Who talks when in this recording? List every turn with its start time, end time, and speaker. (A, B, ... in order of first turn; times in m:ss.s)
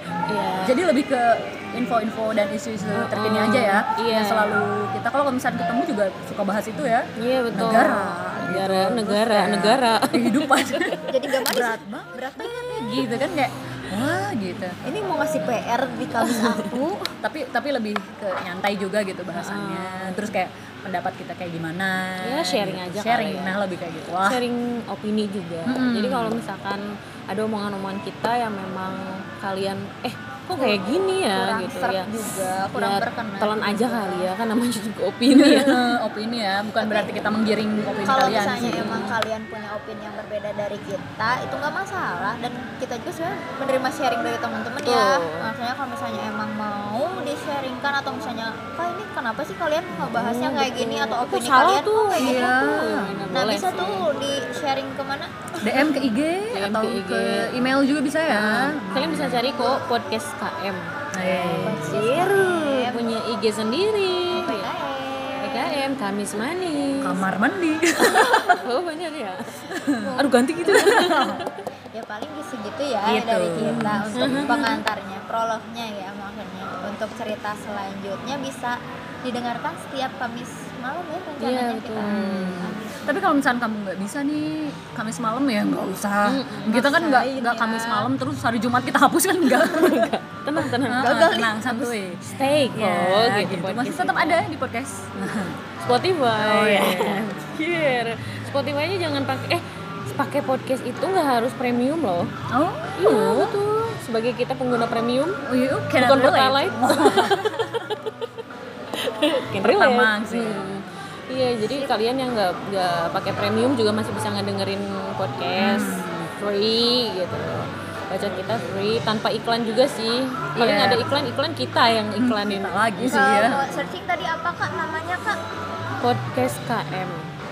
0:00.3-0:00.8 A
0:00.6-0:14.8 B
0:03.0-0:04.6 A
0:07.2-0:11.1 A
0:11.1-0:13.2 C
0:14.8-0:17.1 C
0:16.2-0:16.8 A
0:17.2-0:24.4 B
0:19.3-0:20.3 A
0:22.2-0:23.6 A
0:24.2-0:32.1 A
0:25.7-0:26.4 B
0:30.6-0:34.3 C
0:32.7-0:36.0 A
0:35.3-0:39.1 B
0:36.8-0:37.2 C
0:38.0-0:52.5 C
0:38.6-0:39.2 A
0:44.8-0:45.5 A
0:50.0-0:54.1 A
0:52.2-0:53.2 B
0:53.3-0:56.0 C
0:55.6-0:59.4 B
0:56.5-0:57.5 A
0:58.3-1:04.7 A
1:01.1-1:02.0 B
1:01.6-1:03.0 C
1:04.3-1:05.8 C
1:05.4-1:07.3 A
1:07.0-1:08.6 B
1:08.1-1:08.7 C
1:08.1-1:11.6 A
1:09.7-1:10.1 B
1:09.8-1:10.8 C
1:10.7-1:11.5 B
1:11.9-1:23.4 C
1:13.0-1:14.6 B
1:13.6-1:14.8 A
1:21.4-1:22.7 A
1:22.0-1:35.6 B
1:26.3-1:26.9 A
1:26.7-1:27.8 C
1:27.8-1:28.0 A
1:29.5-1:31.3 A
1:31.0-1:31.9 C
1:32.2-1:34.5 A
1:35.8-1:42.4 A
1:36.4-1:37.3 B
1:42.5-1:43.6 B
1:43.0-1:45.4 A
1:45.5-1:47.7 B
1:46.0-1:48.1 A
1:48.9-2:03.7 A
1:49.6-1:50.8 B
1:55.6-1:56.3 B
2:00.6-2:01.2 B
2:02.2-2:03.9 B
2:03.1-2:05.4 C
2:06.0-2:07.3 A